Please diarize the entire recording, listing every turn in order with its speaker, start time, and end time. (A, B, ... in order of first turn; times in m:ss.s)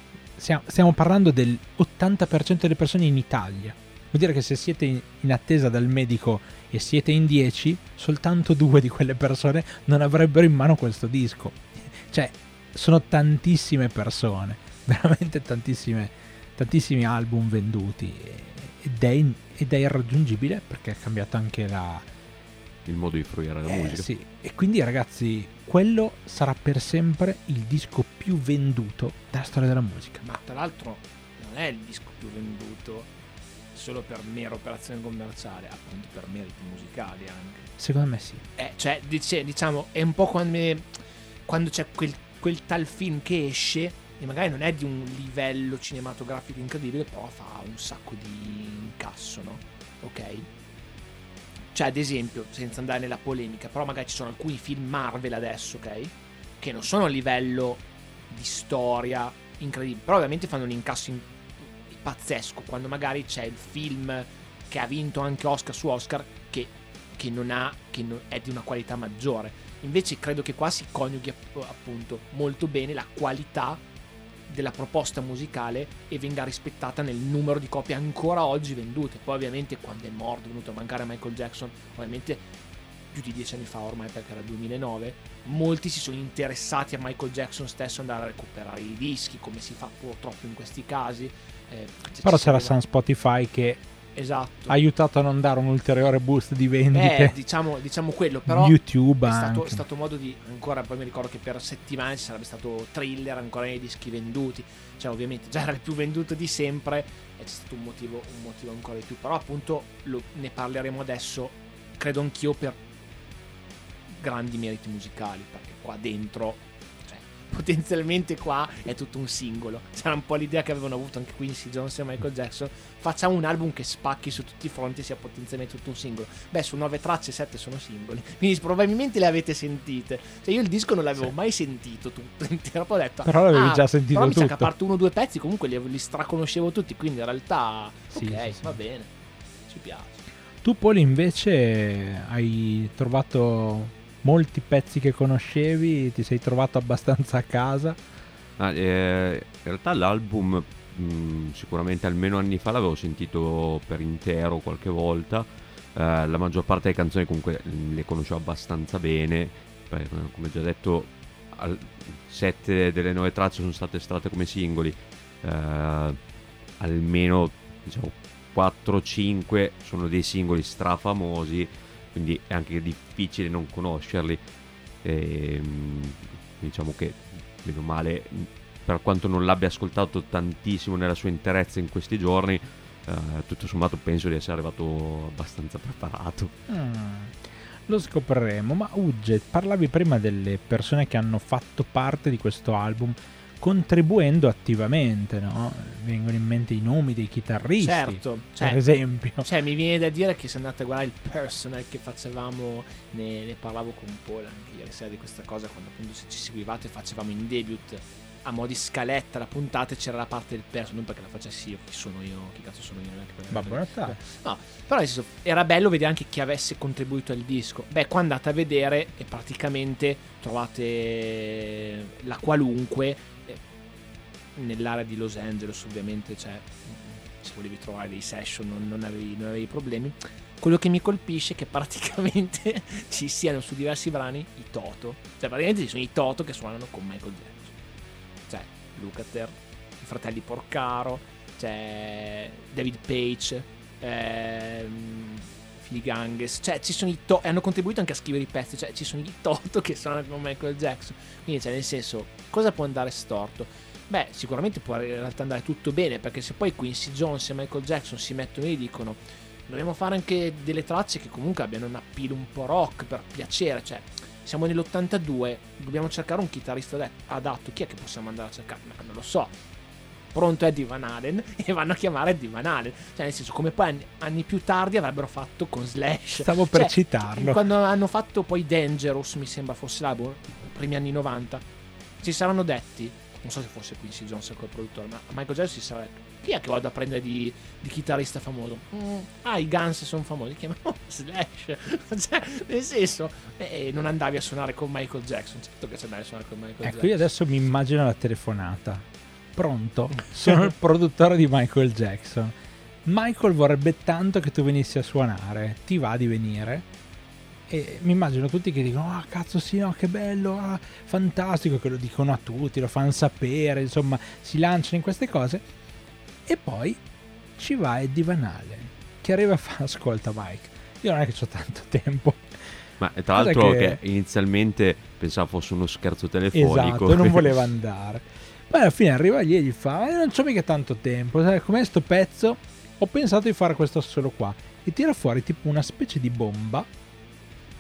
0:00.4-0:22.1 A
0:22.9-0:24.1 B
0:23.7-0:30.2 A
0:30.2-0:33.1 C
0:33.7-0:37.7 C
0:37.8-0:38.4 A
0:38.6-0:50.5 C
0:51.7-1:01.3 C
1:01.9-1:13.8 C
1:14.5-1:22.4 C
1:23.1-1:32.8 C
1:32.2-1:33.8 A
1:34.1-1:34.8 C
1:34.7-1:37.4 A
1:36.9-1:52.8 C
1:38.5-1:39.8 A
1:54.1-2:19.1 C
2:13.2-2:14.7 A
2:18.1-2:18.8 A
2:19.7-2:20.2 C
2:20.6-2:28.0 A
2:28.6-2:46.2 B
2:46.8-2:54.4 B
2:55.0-3:06.5 B
3:06.7-3:19.5 A
3:17.8-3:18.8 C
3:19.4-3:43.6 C
3:33.5-3:34.2 A
3:44.6-3:57.8 C
3:58.5-4:29.5 C
4:30.3-4:41.6 C
4:36.4-4:37.6 A
4:42.2-4:57.3 C
4:56.8-5:06.9 A
5:07.7-5:15.6 A
5:16.5-5:17.0 A
5:17.6-5:22.8 A
5:23.0-5:27.6 B
5:23.3-5:24.0 A
5:26.5-5:36.9 A